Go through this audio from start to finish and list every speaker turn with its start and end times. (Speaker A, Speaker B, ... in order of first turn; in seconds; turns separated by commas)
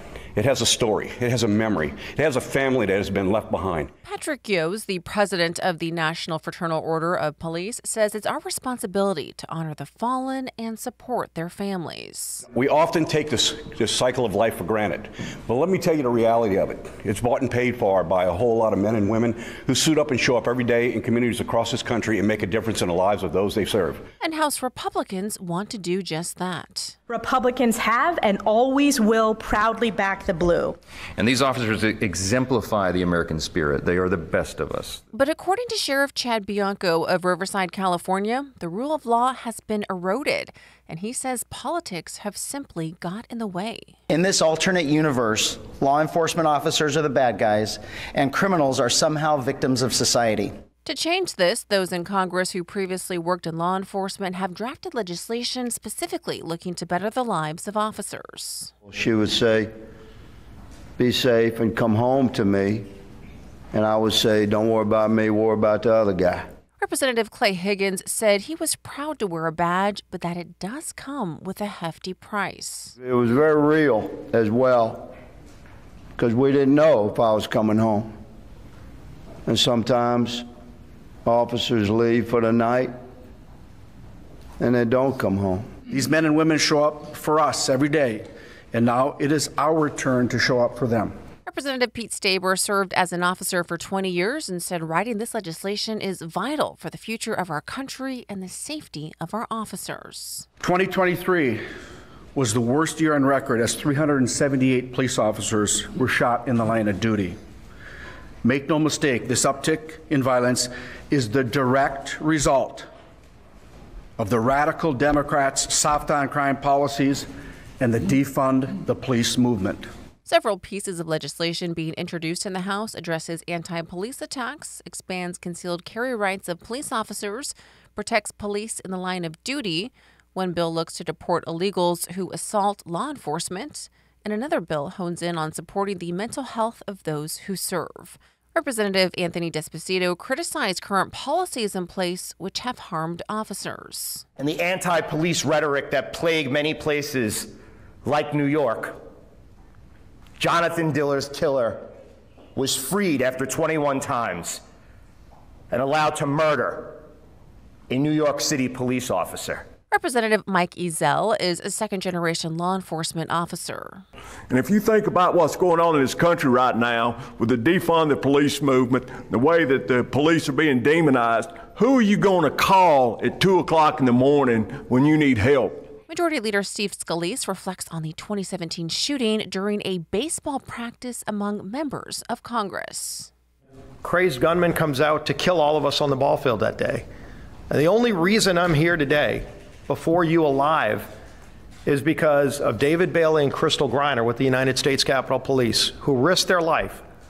Speaker A: 0.3-3.9, Speaker B: 4.0-12.4, Speaker A: 12.5-24.0, Speaker B: 24.2-27.0, Speaker C: 27.1-30.8, Speaker D: 31.1-35.0, Speaker B: 35.1-44.0, Speaker E: 44.1-50.6, Speaker B: 50.8-58.7, Speaker F: 58.9-59.7, Speaker F: 61.0-62.9, Speaker F: 63.7-66.4, Speaker B: 66.8-72.9, Speaker F: 73.0-75.1, Speaker F: 76.2-78.1, Speaker F: 79.5-80.4, Speaker F: 81.2-82.9, Speaker F: 84.6-85.7, Speaker G: 86.4-88.2, Speaker G: 88.9-91.1, Speaker B: 91.5-100.5, Speaker G: 100.7-101.5, Speaker G: 102.3-107.3, Speaker G: 108.4-112.8, Speaker G: 114.2-117.2, Speaker G: 117.8-119.8, Speaker B: 120.2-144.2, Speaker H: 144.4-147.5, Speaker H: 148.0-149.0, Speaker H: 150.4-151.8, Speaker H: 152.6-154.6, Speaker H: 155.7-157.0, Speaker H: 157.9-159.7, Speaker B: 159.9-164.0, Speaker I: 164.5-175.9, Speaker B: 176.1-183.3, Speaker J: 184.0-187.0, Speaker J: 187.7-191.1, Speaker J: 191.8-197.0